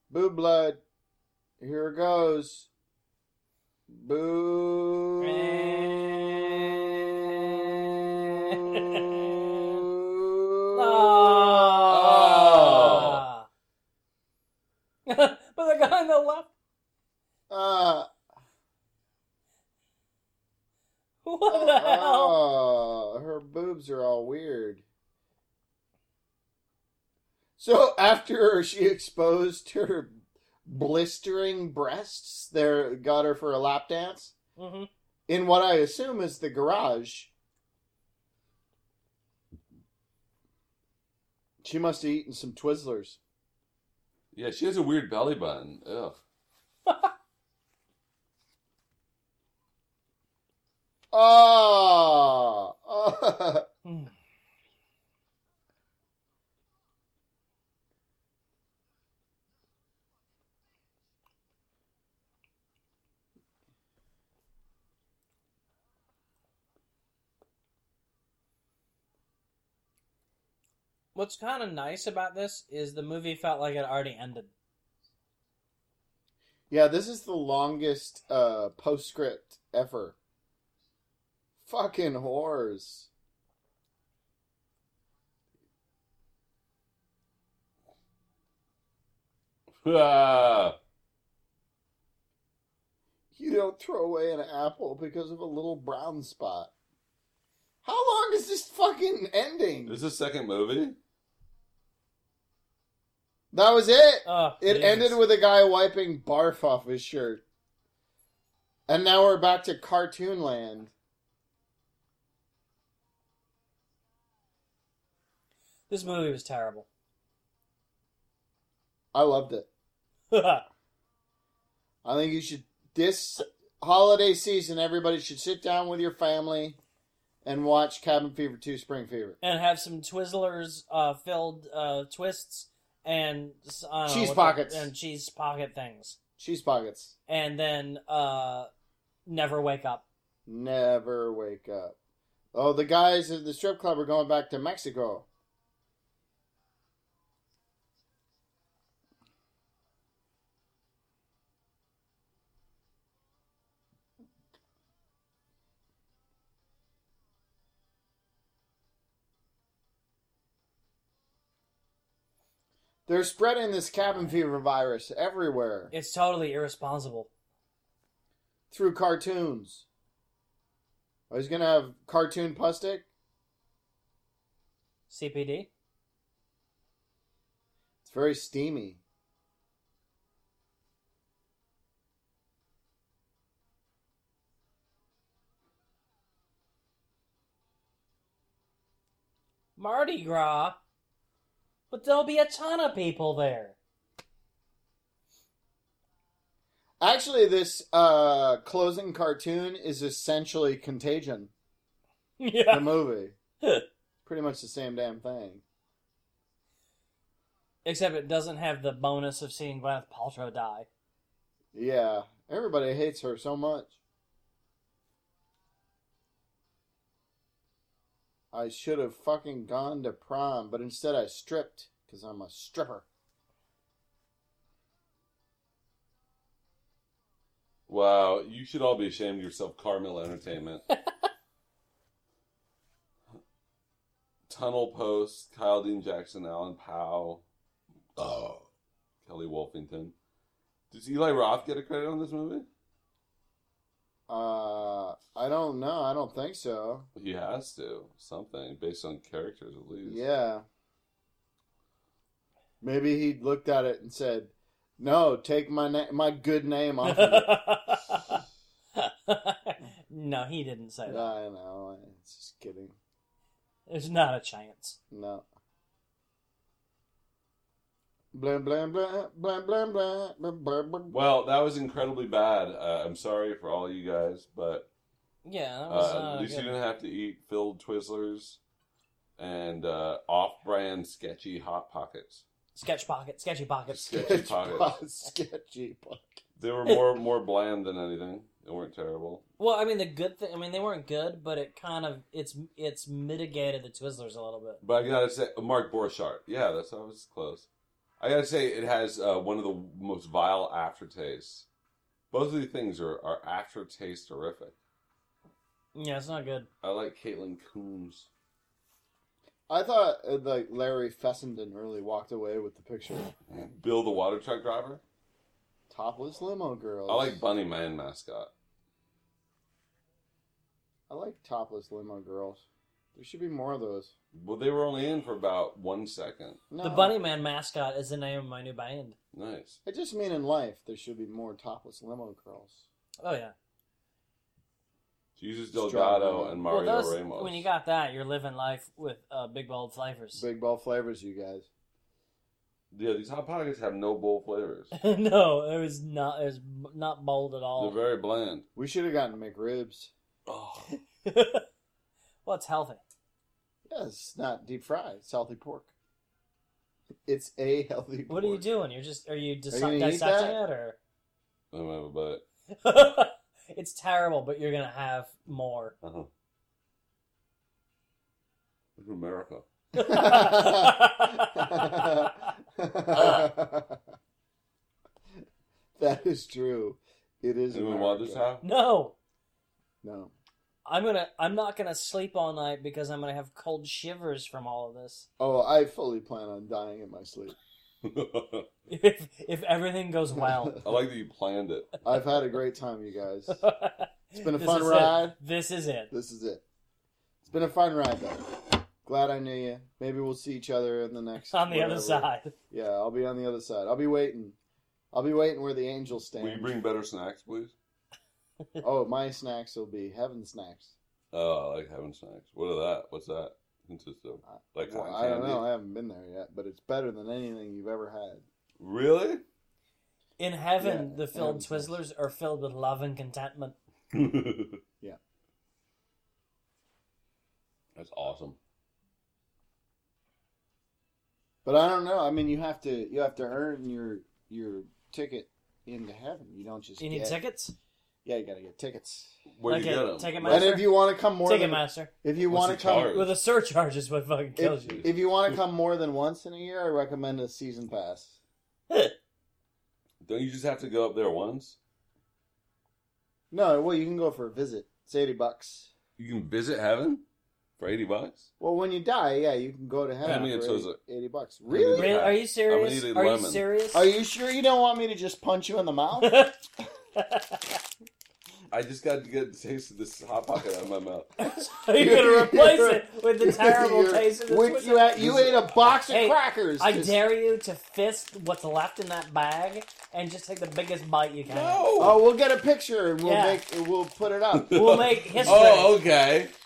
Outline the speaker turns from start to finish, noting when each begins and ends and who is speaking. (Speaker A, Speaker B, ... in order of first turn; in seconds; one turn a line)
Speaker A: 0.1-0.8
Speaker A: 1.6-2.7
Speaker A: 3.9-13.0
Speaker B: 5.2-6.6
Speaker B: 8.4-9.8
Speaker B: 10.7-13.5
Speaker C: 11.9-13.2
Speaker B: 15.1-16.5
Speaker A: 17.5-18.1
Speaker B: 21.2-22.4
Speaker A: 21.5-24.9
Speaker A: 27.6-34.4
Speaker B: 34.6-34.9
Speaker A: 35.3-37.3
Speaker A: 41.6-43.2
Speaker C: 44.3-46.2
Speaker B: 46.9-47.1
Speaker A: 51.1-53.7
Speaker B: 53.9-54.1
Speaker B: 71.2-74.5
Speaker A: 76.7-80.2
Speaker A: 81.6-83.1
Speaker C: 89.8-90.8
Speaker A: 93.3-96.7
Speaker A: 97.8-100.0
Speaker C: 99.9-101.0
Speaker A: 103.5-107.4
Speaker B: 104.2-105.2
Speaker A: 108.9-110.9
Speaker B: 115.9-116.9
Speaker A: 119.1-119.7
Speaker B: 120.3-120.7
Speaker A: 122.0-126.8
Speaker A: 127.4-129.4
Speaker B: 129.4-136.2
Speaker A: 134.1-134.9
Speaker A: 136.4-137.2
Speaker B: 137.3-138.7
Speaker B: 139.3-140.1
Speaker A: 140.5-142.0
Speaker A: 142.5-145.3
Speaker A: 163.1-165.9
Speaker B: 165.9-167.3
Speaker A: 168.7-169.9
Speaker A: 171.3-173.1
Speaker B: 175.1-175.7
Speaker A: 178.0-179.0
Speaker B: 189.8-190.8
Speaker B: 191.9-193.8
Speaker A: 197.0-201.5
Speaker B: 202.4-202.9
Speaker A: 202.7-203.4
Speaker A: 204.2-205.6
Speaker B: 207.8-210.9
Speaker A: 211.7-214.0
Speaker A: 218.5-223.1
Speaker C: 227.9-230.8
Speaker C: 234.5-237.4
Speaker C: 238.2-238.7
Speaker C: 239.2-240.1
Speaker C: 240.9-242.7
Speaker A: 244.3-247.1
Speaker C: 247.2-250.2
Speaker A: 250.0-250.7
Speaker A: 252.8-257.6
Speaker B: 257.0-258.4
Speaker B: 259.0-261.3
Speaker A: 261.1-263.0
Speaker B: 263.9-265.0
Speaker A: 265.1-265.4
Speaker A: 268.3-271.1
Speaker C: 271.1-274.9
Speaker B: 275.4-276.8
Speaker C: 275.9-278.6
Speaker C: 279.4-282.4
Speaker B: 282.8-284.4
Speaker C: 283.9-285.0
Speaker A: 284.2-286.4
Speaker C: 286.6-289.4
Speaker B: 289.6-294.8
Speaker C: 294.8-297.7
Speaker C: 298.2-301.7
Speaker C: 302.3-304.8
Speaker B: 305.9-306.7
Speaker C: 306.8-308.3
Speaker A: 309.7-313.3
Speaker C: 313.5-315.0
Speaker A: 315.9-317.4
Speaker C: 317.1-318.5
Speaker A: 321.1-322.6
Speaker A: 323.1-324.1
Speaker C: 324.3-326.6
Speaker A: 326.7-327.1
Speaker B: 326.8-329.2
Speaker C: 329.3-329.8
Speaker A: 329.9-332.9
Speaker B: 333.2-333.5
Speaker C: 335.4-337.7
Speaker A: 335.7-336.7
Speaker B: 336.7-340.4
Speaker A: 340.3-341.7
Speaker C: 342.9-344.9
Speaker B: 344.9-348.0
Speaker C: 347.8-348.6
Speaker A: 348.8-350.1
Speaker C: 350.5-350.9
Speaker B: 351.2-351.6
Speaker B: 352.4-353.0
Speaker A: 353.9-355.9
Speaker A: 357.2-358.6
Speaker B: 358.3-361.0
Speaker A: 359.7-360.6
Speaker C: 361.7-362.4
Speaker B: 362.7-365.9
Speaker C: 366.0-366.3
Speaker C: 369.0-369.6
Speaker B: 369.9-372.5
Speaker A: 370.0-374.0
Speaker B: 373.1-373.4
Speaker A: 376.0-378.4
Speaker C: 377.7-378.6
Speaker B: 378.6-379.2
Speaker A: 380.0-380.3
Speaker B: 380.9-385.3
Speaker A: 385.4-387.6
Speaker C: 388.0-388.7
Speaker B: 388.9-390.8
Speaker C: 390.8-392.0
Speaker A: 392.0-393.6
Speaker B: 393.5-396.1
Speaker A: 394.4-395.4
Speaker A: 396.1-396.6
Speaker A: 397.5-404.6
Speaker B: 401.5-402.5
Speaker A: 405.1-406.7
Speaker C: 406.4-407.8
Speaker A: 408.8-410.9
Speaker C: 411.3-415.7
Speaker A: 414.4-418.4
Speaker C: 418.8-419.4
Speaker B: 420.4-423.8
Speaker A: 420.8-422.0
Speaker C: 424.1-424.8
Speaker C: 428.0-428.6
Speaker A: 431.6-437.4
Speaker B: 437.0-437.8
Speaker A: 438.2-439.3
Speaker C: 439.5-440.7
Speaker B: 439.7-442.1
Speaker A: 440.4-443.2
Speaker C: 442.4-443.3
Speaker B: 443.1-445.1
Speaker A: 444.6-448.4
Speaker C: 450.2-451.8
Speaker A: 453.5-455.9
Speaker C: 456.2-457.2
Speaker C: 457.8-458.5
Speaker A: 458.6-462.2
Speaker C: 460.2-461.0
Speaker B: 460.2-460.5
Speaker C: 461.7-463.6
Speaker B: 461.9-464.1
Speaker A: 463.9-466.4
Speaker B: 466.2-466.6
Speaker B: 467.2-467.8
Speaker C: 468.7-471.3
Speaker B: 471.4-475.5
Speaker A: 471.9-477.2
Speaker B: 476.1-481.9
Speaker C: 481.5-482.2
Speaker A: 482.0-484.8
Speaker B: 483.2-483.6
Speaker C: 484.5-486.5
Speaker B: 484.7-485.9
Speaker A: 485.4-485.8